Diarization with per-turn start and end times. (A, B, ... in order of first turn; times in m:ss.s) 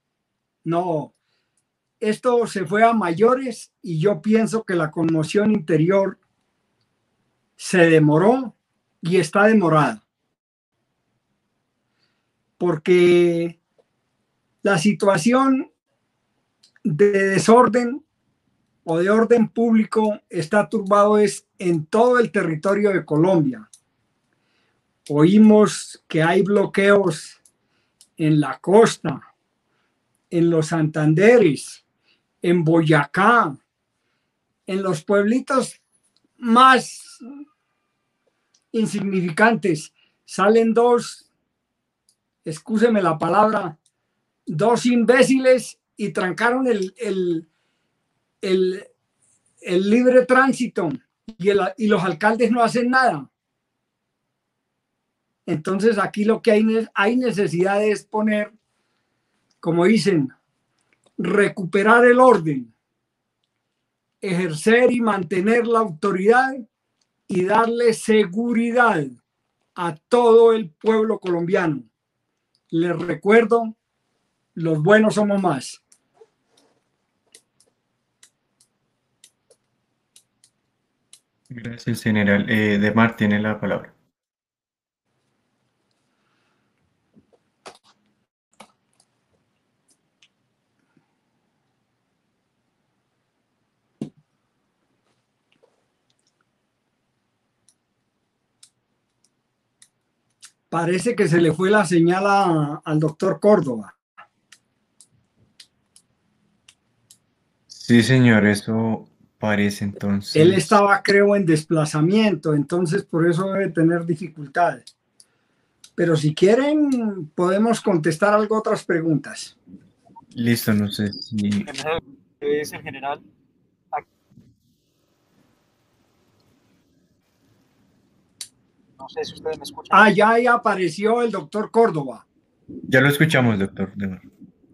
0:00.6-0:01.1 A
0:02.0-0:06.2 A
0:07.6-0:10.0 A
0:12.6-0:13.6 A
0:14.6-0:15.7 A
0:16.8-0:18.0 A
0:18.8-0:23.7 A
0:25.1-0:27.4 A
0:28.2-0:29.2 A
0:30.3-0:31.8 A
0:32.4-0:33.6 A
0:34.7-0:35.8 A
0:36.4-0:37.2 A
0:38.7-0:41.3 A
0:42.4-0:43.8 A
0:44.5-0:47.5 A
0:48.4-0:48.9 A
0:49.6-0:53.3 A
0:55.5-0:58.5 A
0:59.6-1:00.3 A
1:01.2-1:02.7 A
1:04.2-1:06.6 A
1:07.3-1:09.2 A
1:09.8-1:11.9 A
1:12.7-1:13.8 A
1:14.6-1:15.8 A
1:21.5-1:23.9 B
1:40.7-1:44.0 A
1:47.7-1:50.8 B
1:50.3-1:54.8 A
1:56.0-1:59.5 A
2:00.3-2:01.7 B
2:01.7-2:03.2 C
2:09.0-2:10.1 C
2:09.9-2:12.2 A
2:12.9-2:14.2 B